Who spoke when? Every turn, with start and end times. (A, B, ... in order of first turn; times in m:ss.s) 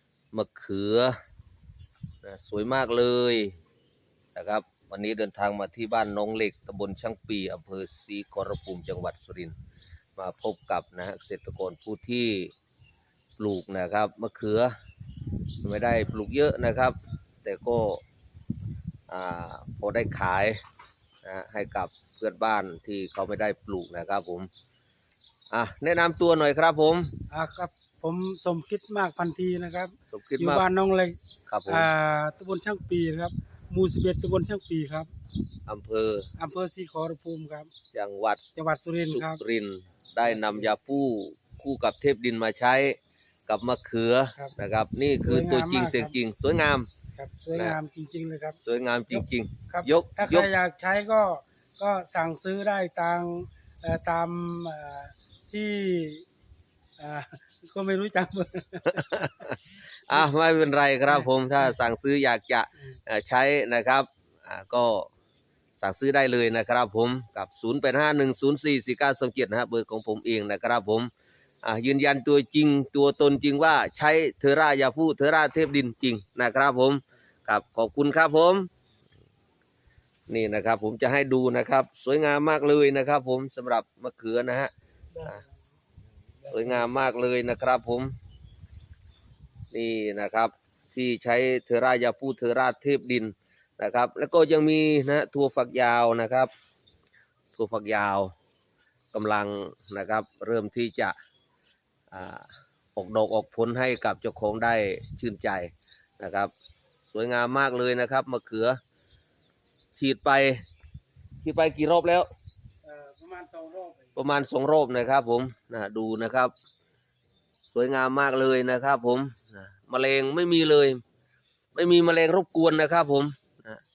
0:00.3-0:01.1 A
0:02.2-0:03.5 A
0:04.3-0:09.5 A
0:10.2-0:12.5 A
0:13.4-0:14.7 A
0:15.6-0:18.0 A
0:19.1-0:20.6 A
0:21.2-0:24.5 A
0:25.5-0:27.2 A
0:27.3-0:35.1 B
0:30.1-0:30.6 A
0:31.4-0:31.9 A
0:35.7-0:36.3 A
0:36.4-0:37.7 B
0:37.9-0:38.5 A
0:38.6-0:39.4 B
0:39.0-0:46.9 A
0:40.2-0:40.7 B
0:45.2-0:46.2 B
0:47.2-0:48.6 B
0:48.6-0:50.5 A
0:49.1-0:56.3 B
0:57.0-0:59.0 B
0:58.9-1:05.1 A
1:05.8-1:11.1 A
1:11.6-1:18.7 A
1:20.3-1:24.7 A
1:26.5-1:26.8 B
1:26.5-1:28.2 A
1:29.7-1:36.5 A
1:37.5-1:38.3 A
1:39.1-1:41.2 A
1:42.1-1:46.5 A
1:47.0-1:48.8 A
1:50.0-1:50.6 A
1:51.4-1:52.3 A
1:52.8-1:54.1 B
1:54.2-1:56.5 A
1:57.7-2:01.0 A
2:01.8-2:03.8 A